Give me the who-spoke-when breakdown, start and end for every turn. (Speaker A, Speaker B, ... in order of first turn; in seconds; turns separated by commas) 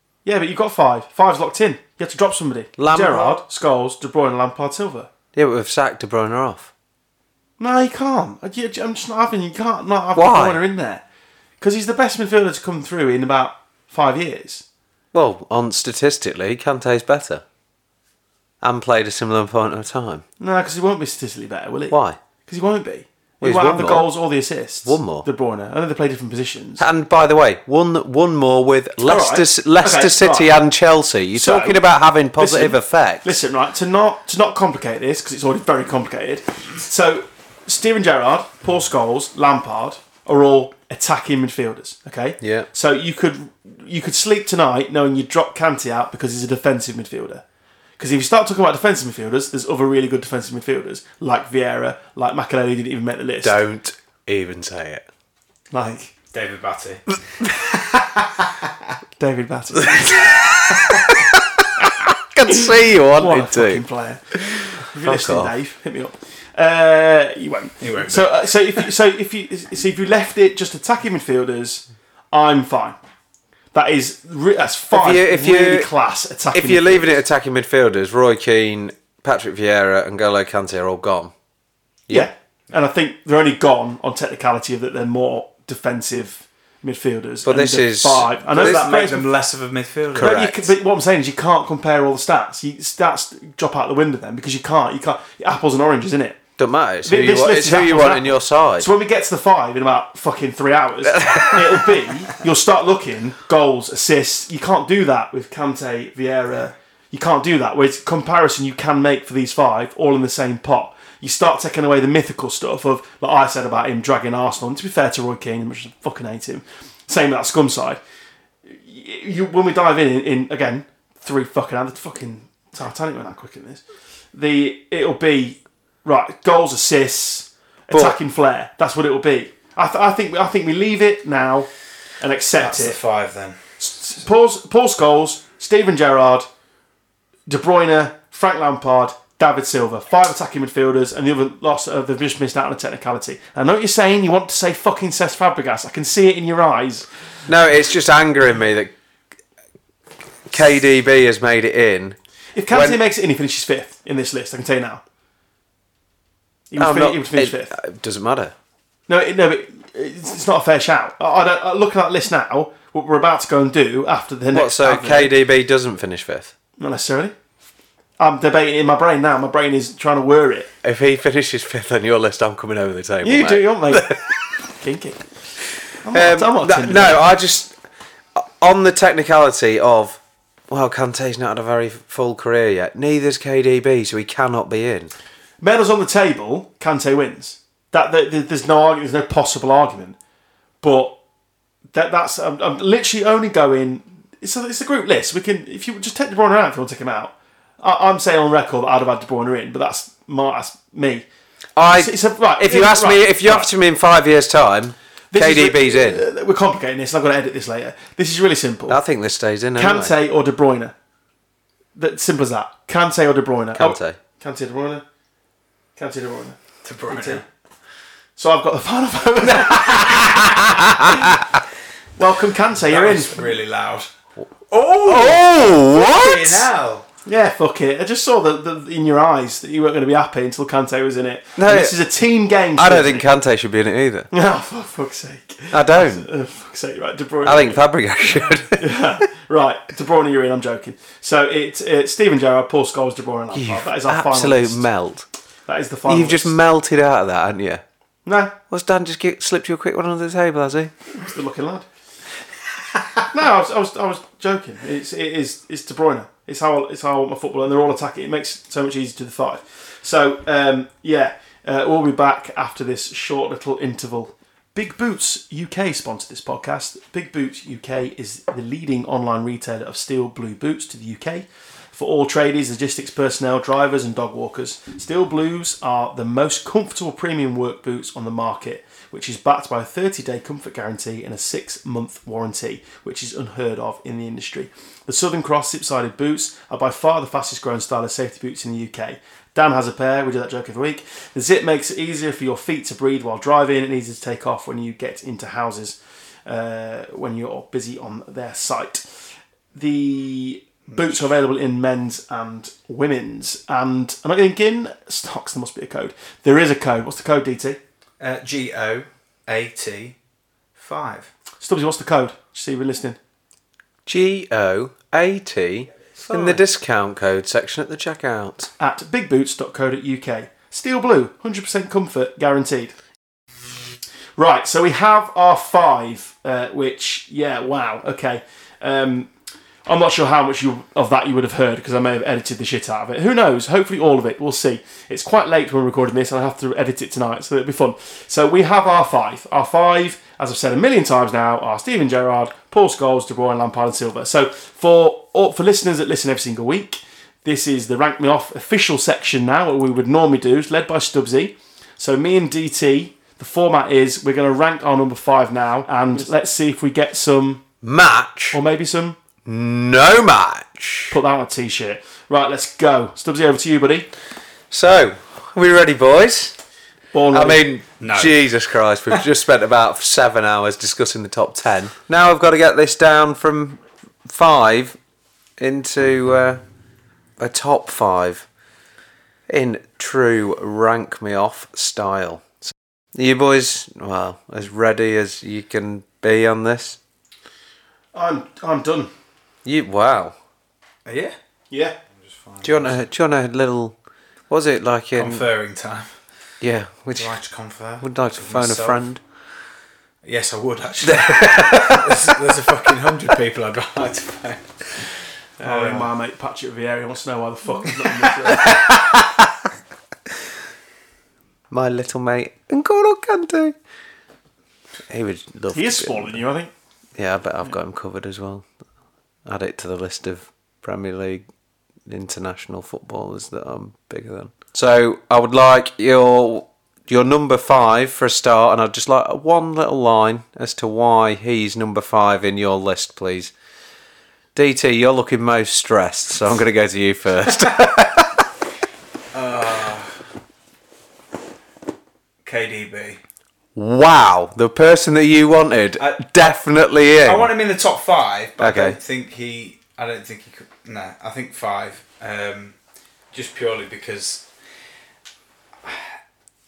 Speaker A: 0.2-5.1, Speaker B: 2.8-3.4, Speaker B: 5.3-6.7, Speaker A: 7.6-11.0, Speaker B: 10.2-10.6, Speaker A: 11.6-14.6, Speaker B: 15.1-17.4, Speaker B: 18.6-20.2, Speaker A: 20.4-26.9, Speaker B: 21.9-22.2, Speaker B: 23.4-24.1, Speaker B: 24.9-25.3, Speaker B: 26.8-33.4, Speaker A: 29.0-30.5, Speaker A: 31.3-31.8, Speaker A: 32.4-47.4, Speaker B: 42.4-42.7, Speaker A: 48.0-53.6, Speaker B: 53.4-55.0, Speaker A: 55.7-56.1, Speaker C: 56.3-57.0, Speaker C: 57.9-58.3, Speaker A: 59.2-60.4, Speaker B: 59.9-63.8, Speaker A: 62.5-73.0, Speaker B: 64.5-65.5, Speaker C: 67.8-68.4, Speaker A: 73.7-77.2, Speaker B: 74.9-75.9, Speaker B: 76.5-81.3, Speaker A: 82.1-89.3, Speaker B: 87.4-88.9, Speaker C: 88.4-90.5, Speaker B: 90.1-90.7, Speaker A: 90.2-96.4, Speaker B: 96.6-98.9, Speaker A: 97.0-118.0, Speaker B: 101.1-101.8, Speaker A: 118.7-123.8, Speaker A: 124.3-131.7, Speaker B: 127.9-128.2, Speaker A: 132.2-133.0, Speaker C: 132.6-133.6, Speaker A: 133.8-136.5, Speaker A: 137.5-147.1, Speaker B: 147.5-148.9, Speaker B: 150.5-152.2, Speaker A: 152.6-155.0, Speaker B: 152.7-153.0, Speaker A: 156.7-157.7, Speaker B: 156.8-158.5, Speaker A: 159.1-165.4, Speaker B: 164.5-166.5, Speaker A: 166.8-167.3, Speaker A: 168.2-170.7, Speaker B: 170.8-174.3, Speaker A: 173.2-174.2, Speaker A: 174.8-175.2, Speaker A: 176.0-177.2, Speaker B: 176.1-177.7, Speaker B: 178.3-185.1, Speaker A: 185.6-190.2, Speaker A: 190.8-191.2, Speaker A: 191.9-201.3, Speaker B: 201.8-206.2, Speaker A: 201.9-203.7, Speaker A: 205.3-209.0, Speaker B: 208.9-210.1, Speaker A: 209.8-210.9, Speaker A: 211.9-215.0, Speaker B: 213.7-214.2, Speaker A: 215.9-217.4, Speaker C: 216.8-217.4, Speaker A: 218.4-221.4, Speaker B: 220.1-221.4, Speaker A: 222.2-223.5, Speaker C: 222.9-224.1, Speaker C: 224.7-227.1, Speaker B: 225.0-226.7, Speaker A: 227.3-233.3, Speaker B: 231.6-232.0, Speaker B: 232.8-234.3, Speaker A: 234.3-237.8, Speaker B: 235.7-236.3, Speaker B: 237.4-239.0, Speaker A: 238.7-244.9, Speaker B: 243.5-245.3, Speaker A: 245.7-246.6, Speaker B: 246.1-247.8, Speaker A: 248.2-248.6, Speaker B: 248.7-250.9, Speaker A: 251.1-251.9, Speaker A: 253.3-299.1, Speaker A: 299.7-307.8, Speaker C: 300.9-301.2, Speaker C: 308.2-310.2, Speaker C: 310.8-311.3, Speaker A: 311.6-313.2, Speaker B: 314.1-318.7, Speaker C: 316.2-316.6, Speaker A: 318.8-322.9, Speaker A: 324.4-329.3, Speaker A: 329.9-357.6, Speaker B: 357.8-358.6, Speaker A: 358.5-359.2, Speaker B: 359.4-361.2, Speaker A: 361.1-364.1, Speaker B: 364.7-366.6, Speaker A: 367.1-367.6, Speaker B: 367.3-375.0, Speaker C: 368.0-368.4, Speaker B: 375.6-376.6, Speaker B: 377.4-378.4, Speaker B: 379.5-387.0, Speaker A: 388.1-389.1, Speaker B: 389.6-390.4, Speaker C: 391.1-391.4, Speaker A: 391.7-392.0, Speaker C: 392.2-393.0, Speaker B: 392.6-393.9, Speaker B: 394.5-395.4, Speaker C: 395.1-396.1, Speaker B: 396.6-397.4, Speaker C: 397.1-399.0, Speaker B: 398.0-399.2, Speaker C: 400.2-405.1, Speaker B: 401.0-402.4, Speaker C: 405.6-406.1, Speaker A: 405.6-408.8, Speaker B: 408.5-409.5, Speaker B: 411.7-413.7, Speaker B: 415.1-416.4, Speaker A: 415.7-416.7, Speaker B: 417.2-418.7, Speaker B: 419.4-421.4, Speaker B: 422.1-433.5, Speaker B: 434.6-438.4, Speaker C: 439.3-440.1, Speaker C: 442.4-443.2, Speaker B: 443.8-447.5, Speaker C: 446.0-446.6, Speaker C: 447.2-452.7, Speaker B: 448.6-449.0, Speaker C: 453.3-454.4